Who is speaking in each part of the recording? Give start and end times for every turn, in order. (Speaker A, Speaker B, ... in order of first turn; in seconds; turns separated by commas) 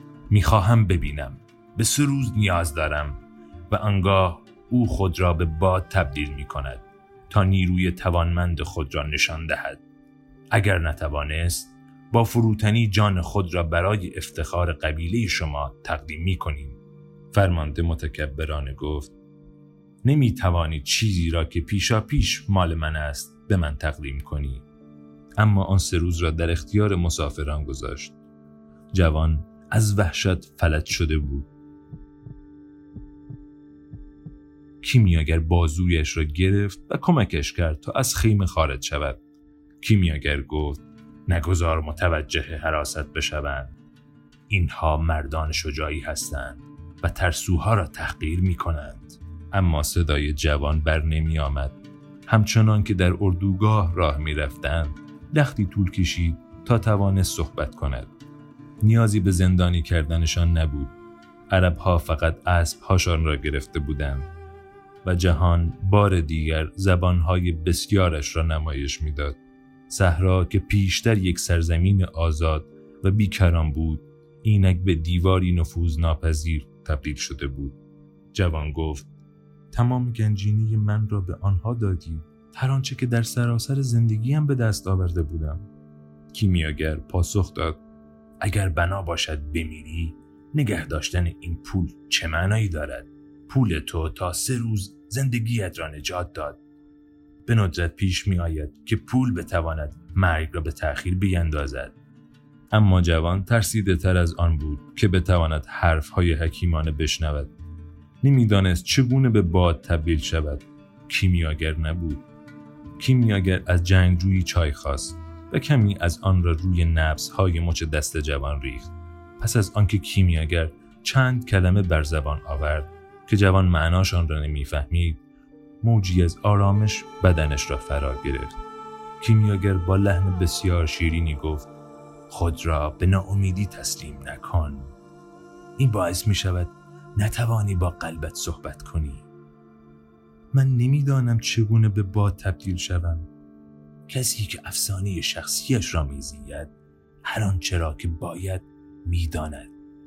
Speaker A: 0.3-9.8, Speaker A: 10.5-16.8, Speaker A: 17.3-19.1, Speaker A: 20.0-24.6, Speaker A: 25.4-28.2, Speaker A: 28.9-31.5, Speaker A: 34.8-39.2, Speaker A: 39.8-43.8, Speaker A: 44.5-58.1, Speaker A: 58.8-60.9, Speaker A: 61.5-64.3, Speaker A: 65.0-69.4, Speaker A: 69.9-77.8, Speaker A: 78.3-79.1, Speaker A: 79.7-85.7, Speaker A: 86.3-87.8, Speaker A: 88.4-96.6, Speaker A: 97.5-102.0, Speaker A: 102.7-107.5, Speaker A: 108.2-112.2, Speaker A: 113.0-125.2, Speaker A: 125.8-128.6, Speaker A: 129.2-131.7, Speaker A: 132.3-134.9, Speaker A: 135.8-139.3, Speaker A: 140.5-143.3, Speaker A: 144.1-146.7, Speaker A: 147.2-149.7